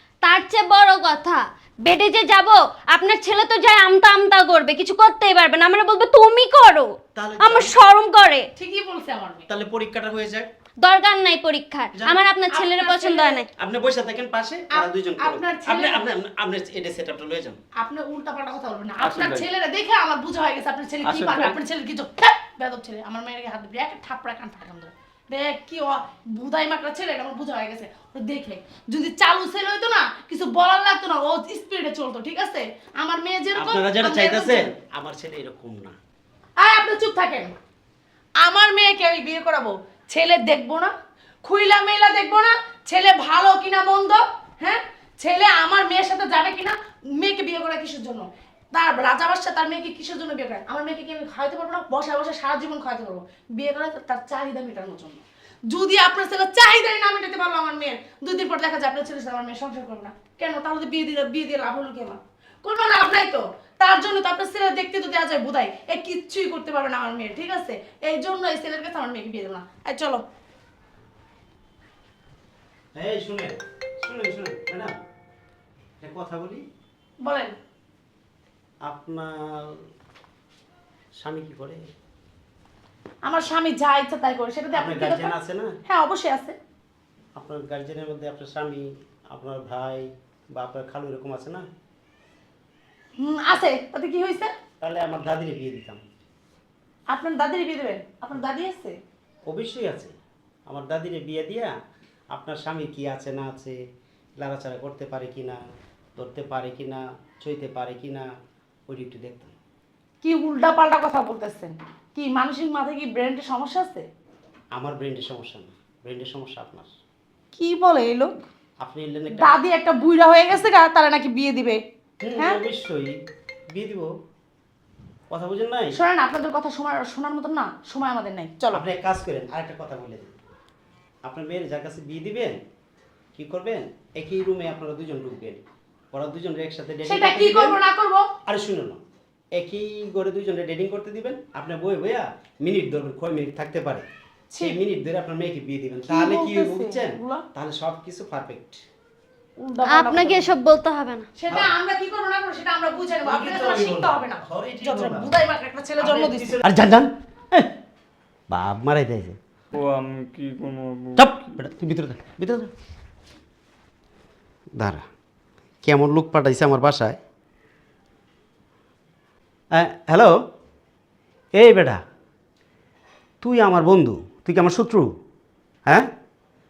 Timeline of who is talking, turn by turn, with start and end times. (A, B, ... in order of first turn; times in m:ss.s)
0:00.2-0:08.5 A
0:07.1-0:07.7 B
0:08.6-0:09.4 C
0:09.5-0:10.5 B
0:10.8-0:13.5 A
0:11.9-0:12.2 B
0:12.5-0:13.4 C
0:13.6-0:17.6 B
0:14.7-0:16.0 C
0:17.8-0:34.7 C
0:19.0-0:19.4 D
0:21.1-0:21.5 D
0:33.5-0:36.0 B
0:36.6-0:37.5 C
0:38.4-0:40.9 C
0:41.4-1:10.2 C
1:12.9-1:14.9 B
1:16.0-1:16.6 B
1:17.2-1:17.5 C
1:18.8-1:19.8 B
1:21.2-1:21.8 B
1:23.2-1:25.3 C
1:24.7-1:25.8 B
1:25.9-1:26.6 C
1:27.4-1:31.6 B
1:33.2-1:34.5 C
1:34.8-1:36.0 B
1:37.1-1:39.0 C
1:39.5-1:40.1 B
1:40.7-1:41.7 B
1:42.3-1:43.8 B
1:44.4-1:45.6 B
1:46.2-1:48.3 B
1:48.9-1:49.6 B
1:50.2-1:54.1 C
1:54.7-1:56.9 B
1:57.5-1:58.3 C
1:58.8-1:59.6 B
1:59.4-2:01.8 C
2:02.2-2:03.2 B
2:03.7-2:04.1 B
2:05.3-2:06.0 B
2:05.9-2:08.8 C
2:08.7-2:10.3 B
2:11.2-2:12.6 B
2:13.3-2:17.8 B
2:17.0-2:18.2 C
2:18.4-2:19.0 B
2:19.5-2:24.1 B
2:24.5-2:24.8 C
2:24.6-2:28.8 B
2:26.1-2:27.4 C
2:29.6-2:30.5 C
2:29.9-2:31.3 A
2:31.4-2:36.5 C
2:31.5-2:31.7 B
2:33.2-2:35.3 B
2:36.0-2:37.7 B
2:38.5-2:39.4 B
2:39.7-2:41.4 D
2:41.2-2:42.7 B
2:44.8-2:45.0 B
2:45.8-2:47.2 B
2:49.7-2:50.3 B
2:51.6-2:52.0 B
2:53.4-2:55.1 B